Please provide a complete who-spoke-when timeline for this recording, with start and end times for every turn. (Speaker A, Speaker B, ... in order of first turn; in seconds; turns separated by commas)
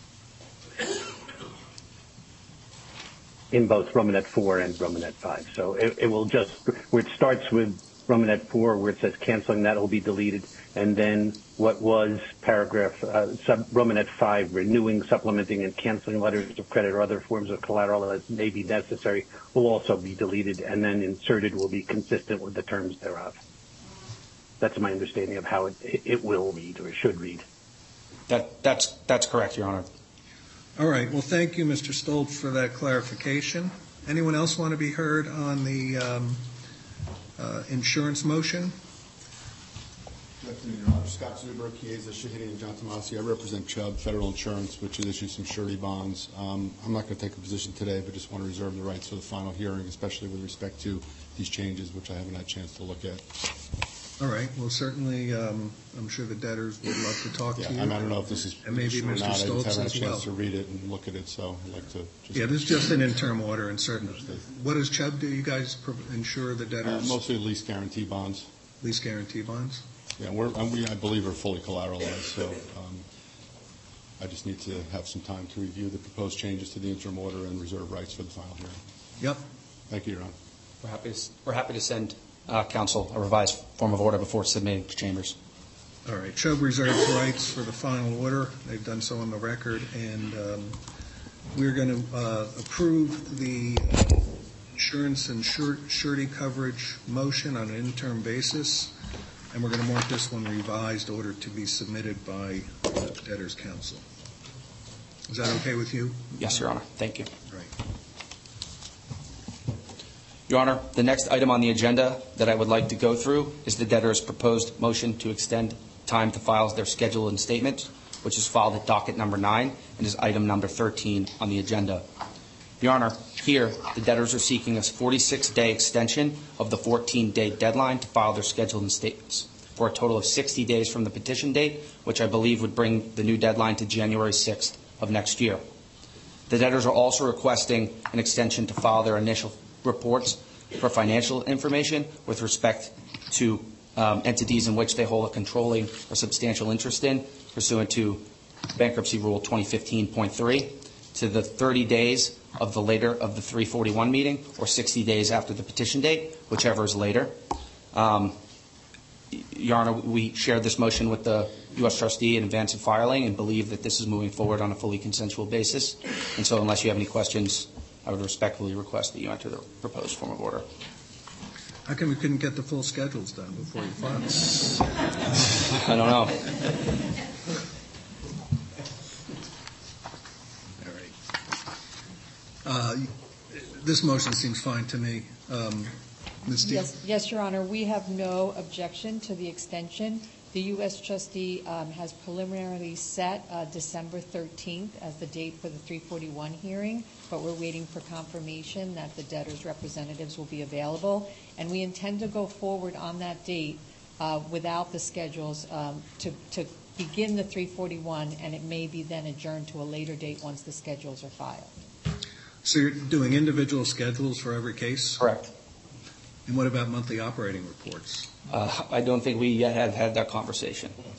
Speaker A: 3.5-23.4, Speaker A: 24.6-27.4, Speaker B: 28.3-29.9, Speaker C: 30.8-36.5, Speaker C: 37.4-38.8, Speaker D: 40.4-53.2, Speaker C: 54.2-60.3, Speaker D: 57.6-62.9, Speaker C: 62.3-67.2, Speaker D: 66.8-68.5, Speaker C: 68.8-69.8, Speaker D: 70.2-73.0, Speaker D: 74.2-78.8, Speaker D: 79.9-80.3, Speaker B: 80.8-85.4, Speaker C: 86.0-90.8, Speaker C: 91.5-94.2, Speaker C: 94.7-98.9, Speaker C: 99.5-104.0, Speaker C: 105.3-106.6, Speaker B: 106.4-107.3, Speaker C: 107.5-107.7, Speaker B: 110.5-122.0, Speaker B: 122.8-135.6, Speaker B: 136.5-157.4, Speaker B: 157.9-158.4, Speaker B: 159.3-170.7, Speaker C: 171.9-174.9, Speaker B: 175.7-176.4, Speaker C: 180.8-181.1, Speaker C: 182.6-186.9, Speaker E: 186.6-211.7, Speaker C: 212.6-215.3, Speaker B: 215.2-215.5, Speaker C: 216.5-218.3, Speaker B: 218.5-220.9